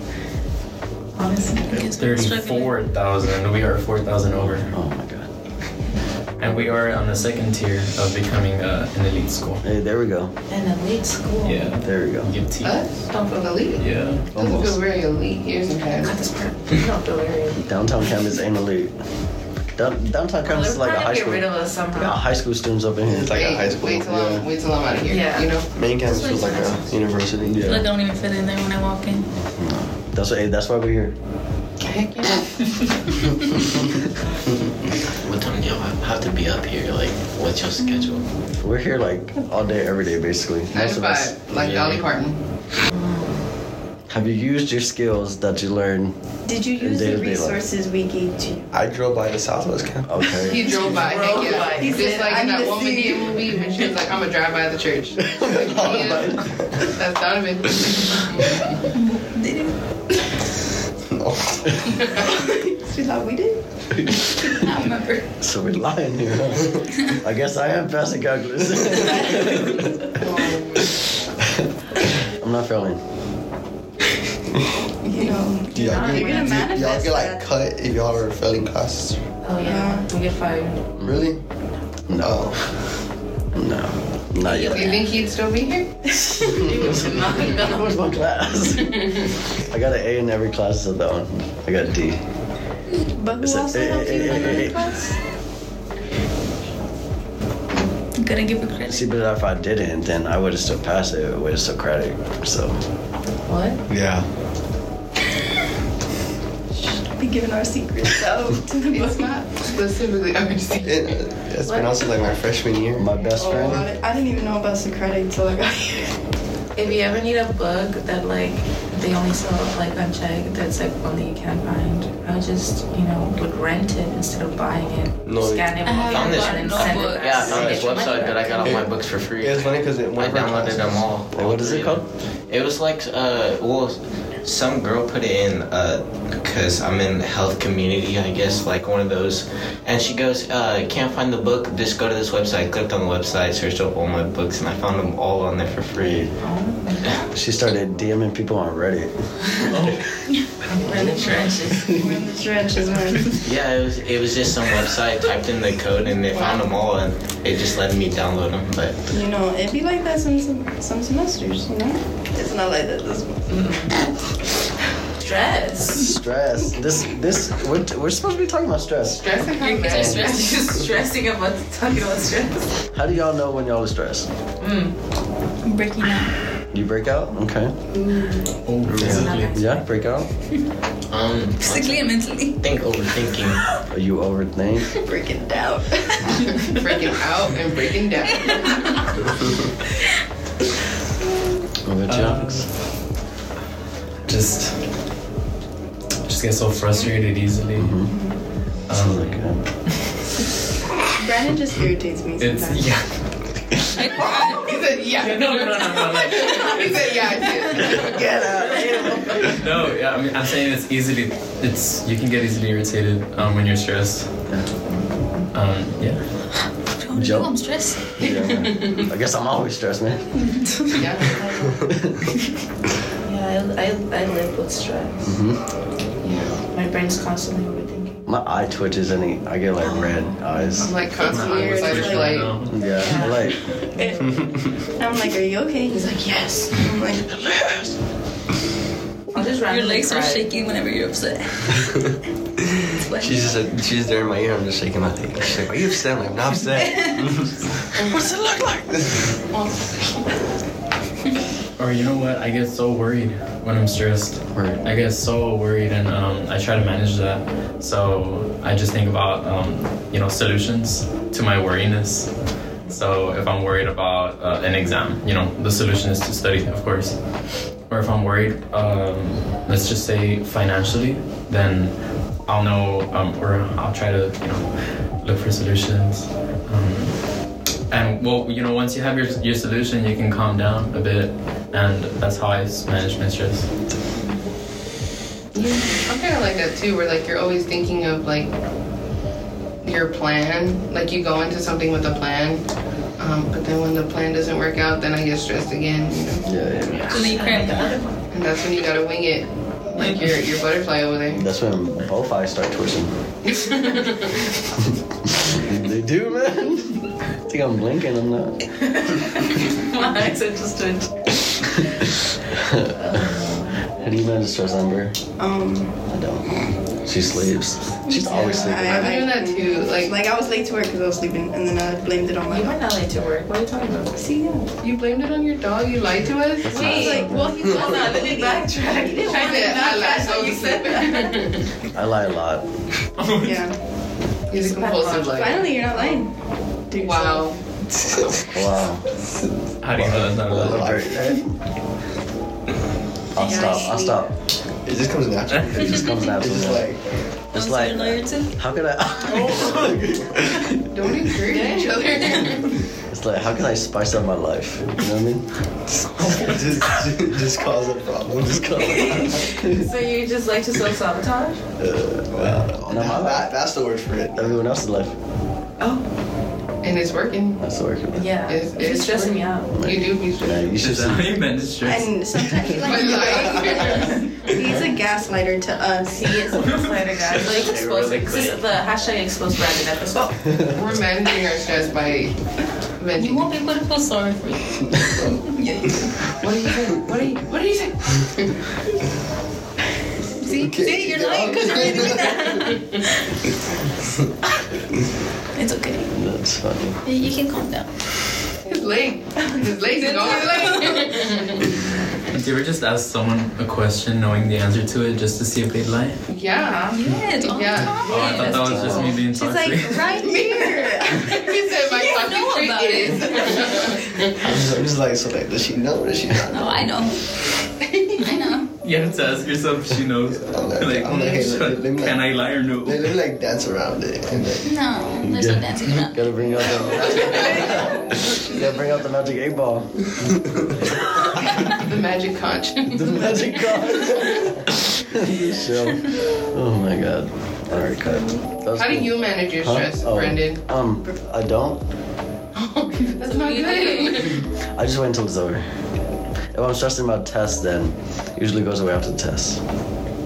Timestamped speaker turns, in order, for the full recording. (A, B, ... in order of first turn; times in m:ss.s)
0:01.2-0:01.8 A
0:01.6-0:02.8 B
0:01.9-0:04.7 C
0:04.3-0:05.3 D
0:06.4-0:09.6 C
0:06.4-0:07.0 D
0:09.6-0:10.3 D
0:10.5-0:11.7 A
0:11.4-0:12.8 C
0:11.8-0:12.3 D
0:12.6-0:16.2 E
0:13.1-0:13.6 A
0:13.8-0:14.3 C
0:14.3-0:14.8 D
0:15.9-0:17.6 A
0:17.6-0:18.9 D
0:19.7-0:23.4 D
0:20.4-0:22.2 A
0:23.0-0:24.4 F
0:23.3-0:25.7 E
0:24.1-0:24.4 D
0:25.1-0:25.5 A
0:25.7-0:27.7 F
0:26.1-0:26.7 B
0:26.1-0:26.9 A
0:27.4-0:27.9 D
0:27.6-0:29.3 B
0:29.2-0:31.1 D
0:31.8-0:32.6 E
0:35.2-0:38.3 G
0:38.6-0:41.5 D
0:40.7-0:42.4 E
0:42.9-0:43.4 A
0:44.1-0:46.2 D
0:46.4-0:48.7 H
0:46.8-0:47.6 D
0:48.7-0:50.2 F
0:50.0-0:50.8 D
0:50.4-0:56.4 E
0:50.6-0:52.4 A
0:51.3-0:53.7 H
0:55.2-0:56.4 D
0:55.5-0:56.9 F
0:56.9-0:58.8 E
0:58.9-0:59.8 B
1:01.1-1:01.8 F
1:01.9-1:02.2 E
1:02.1-1:03.6 H
1:04.4-1:05.3 B
1:05.4-1:10.0 D
1:10.2-1:11.0 E
1:10.8-1:13.0 D
1:15.0-1:17.4 H
1:15.2-1:16.7 A
1:15.7-1:19.2 F
1:19.4-1:20.8 A
1:19.6-1:20.1 H
1:21.0-1:21.2 D
1:21.0-1:21.4 F
1:22.1-1:22.4 D
1:22.1-1:22.7 F
1:23.5-1:25.0 D
1:24.4-1:25.0 A
1:24.6-1:26.0 E
1:26.2-1:29.0 D
1:26.5-1:27.9 A
1:29.7-1:32.2 D
1:33.1-1:35.1 H
1:33.4-1:34.8 D
1:34.3-1:35.0 A
1:38.2-1:39.1 B
1:38.8-1:42.8 D
1:43.5-1:43.8 A
1:43.9-1:44.2 F
1:47.1-1:49.3 H
1:48.9-1:51.2 E
1:50.8-1:53.1 F
1:51.6-1:52.0 A
1:52.9-1:53.9 D
1:53.3-1:56.2 H
1:56.7-2:08.8 A
2:05.2-2:05.8 F
2:05.8-2:07.5 B
2:06.1-2:26.2 G
2:07.5-2:07.8 F
2:08.6-2:11.1 F
2:11.3-2:12.0 D
2:25.9-2:26.3 D
2:26.3-2:27.3 A
2:27.3-2:29.5 D
2:29.6-2:31.5 C
2:30.8-2:32.0 A
2:31.2-2:33.4 H
2:33.4-2:39.0 G
2:36.3-2:36.6 E
2:39.1-2:43.4 H
2:43.5-2:43.9 A
2:45.2-2:46.1 A
2:45.9-2:49.2 D
2:49.1-2:50.3 E
2:49.6-2:50.6 B
2:49.7-2:52.7 A
2:49.9-2:50.2 F
2:52.9-2:54.3 D
2:54.6-2:54.9 A
2:55.6-2:56.3 B
2:56.7-2:57.7 D
2:57.9-2:58.4 E
2:58.6-2:59.6 C
2:58.8-2:59.3 F
2:58.9-2:59.8 A
2:59.0-3:00.3 D
3:01.1-3:03.6 G
3:01.6-3:02.6 B
3:03.9-3:05.0 D
3:04.9-3:06.7 H
3:06.7-3:08.7 E
3:08.3-3:08.9 B
3:11.8-3:12.6 D
3:12.1-3:12.7 C
3:14.2-3:14.7 C
3:16.2-3:18.0 C
3:17.8-3:18.1 D
3:18.1-3:18.4 H
3:18.9-3:19.5 C
3:18.9-3:19.6 D
3:21.2-3:22.9 H
3:22.4-3:23.2 C
3:24.0-3:24.8 B
3:24.2-3:28.2 E
3:25.2-3:27.0 C
3:27.8-3:29.7 D
3:29.4-3:34.3 C
3:34.8-3:35.4 A
3:35.5-3:36.2 C
3:37.0-3:38.2 B
3:37.1-3:37.5 D
3:38.2-3:40.3 D
3:38.2-3:39.1 E
3:40.4-3:41.0 B
3:40.9-3:41.4 E
3:41.3-3:41.8 A
3:41.9-3:42.2 D
3:43.2-3:45.4 A
3:45.2-3:45.6 D
3:46.2-3:46.6 E
3:46.7-3:48.2 A
3:48.2-3:51.0 D
3:49.8-3:50.8 A
3:50.8-3:52.6 E
3:51.2-3:52.5 H
3:51.2-3:52.8 C
3:52.6-3:53.7 D
3:52.9-3:54.2 A
3:53.9-3:54.3 H
3:55.0-3:56.1 H
3:55.9-3:56.8 A
3:56.7-3:57.3 H
3:57.3-3:57.9 D
3:59.3-4:00.6 A
3:59.4-4:01.8 B
4:03.0-4:03.6 B
4:03.1-4:09.3 F
4:06.8-4:07.3 B
4:08.0-4:08.2 E
4:08.0-4:08.8 D
4:09.5-4:10.2 E
4:11.8-4:22.3 C
4:14.5-4:14.8 D
4:22.9-4:43.7 C
4:45.5-4:48.5 E
4:49.8-4:52.6 E
4:53.2-4:56.5 E
4:56.4-4:57.2 D
4:56.9-4:58.2 A
4:57.1-4:58.0 B
4:58.3-5:01.4 E
5:01.3-5:03.1 D
5:03.5-5:04.3 E
5:05.3-5:08.6 D
5:08.8-5:11.3 A
5:12.5-5:13.2 D
5:12.8-5:13.8 A
5:13.9-5:15.1 D
5:15.4-5:16.0 H
5:16.1-5:19.1 D
5:18.2-5:22.8 H
5:18.6-5:20.1 E
5:22.5-5:24.2 A
5:24.1-5:24.7 H
5:24.8-5:26.9 E
5:26.6-5:27.6 D
5:26.7-5:31.5 A
5:26.7-5:29.8 H
5:29.3-5:31.7 E
5:31.9-5:32.6 D
5:33.2-5:33.6 C
5:33.4-5:33.7 H
5:34.5-5:36.0 E
5:34.5-5:36.2 A
5:35.1-5:36.3 H
5:36.9-5:37.5 H
5:36.9-5:37.6 E
5:38.5-5:39.0 D
5:39.8-5:41.0 C
5:39.9-5:41.4 F
5:40.4-5:41.5 D
5:43.3-5:44.3 D
5:43.4-5:44.2 H
5:43.5-5:43.8 A
5:44.8-5:47.0 F
5:45.7-5:46.9 D
5:47.5-5:48.6 B
5:47.5-5:50.7 D
5:50.9-5:52.8 E
5:51.5-5:52.3 H
5:53.1-5:55.5 D
5:56.2-5:58.8 F
5:58.4-5:59.9 D
5:58.8-6:01.6 A
6:01.8-6:03.5 D
6:02.3-6:04.6 F
6:04.3-6:05.2 D
6:05.8-6:06.0 A
6:06.8-6:07.6 E
6:07.6-6:08.4 D
6:08.1-6:09.7 A
6:08.4-6:10.8 E
6:09.7-6:11.4 D
6:10.7-6:12.2 C
6:11.8-6:16.7 H
6:12.8-6:14.3 E
6:16.1-6:20.6 A
6:16.6-6:16.9 C
6:17.5-6:18.5 G
6:20.7-6:23.5 E
6:23.2-6:24.8 B
6:25.6-6:25.9 B
6:26.4-6:28.5 E
6:30.4-6:30.9 E
6:30.4-6:33.2 B
6:30.6-6:32.7 F
6:31.5-6:32.0 E
6:35.6-6:36.1 B
6:36.1-6:37.0 D
6:37.0-6:37.9 B
6:38.6-6:41.7 E
6:39.9-6:41.3 B
6:42.3-6:46.2 C
6:46.3-6:48.4 E
6:46.5-6:47.0 A
6:46.9-6:48.9 B
6:48.0-6:50.2 C
6:48.0-6:49.2 A
6:48.5-6:49.1 D
6:49.3-6:51.7 H
6:50.2-6:54.4 E
6:52.0-6:53.8 B
6:54.4-6:56.9 F
6:56.5-6:57.2 B
6:57.8-6:58.2 E
6:58.2-6:58.7 B
6:58.8-7:03.2 C
7:00.2-7:04.7 F
7:04.6-7:06.3 B
7:05.2-7:10.3 D
7:06.7-7:07.7 F
7:11.7-7:13.4 E
7:12.9-7:21.8 D
7:17.8-7:18.4 H
7:18.7-7:20.6 E
7:22.5-7:24.4 E
7:23.2-7:24.4 B
7:24.7-7:25.6 D
7:26.5-7:29.6 D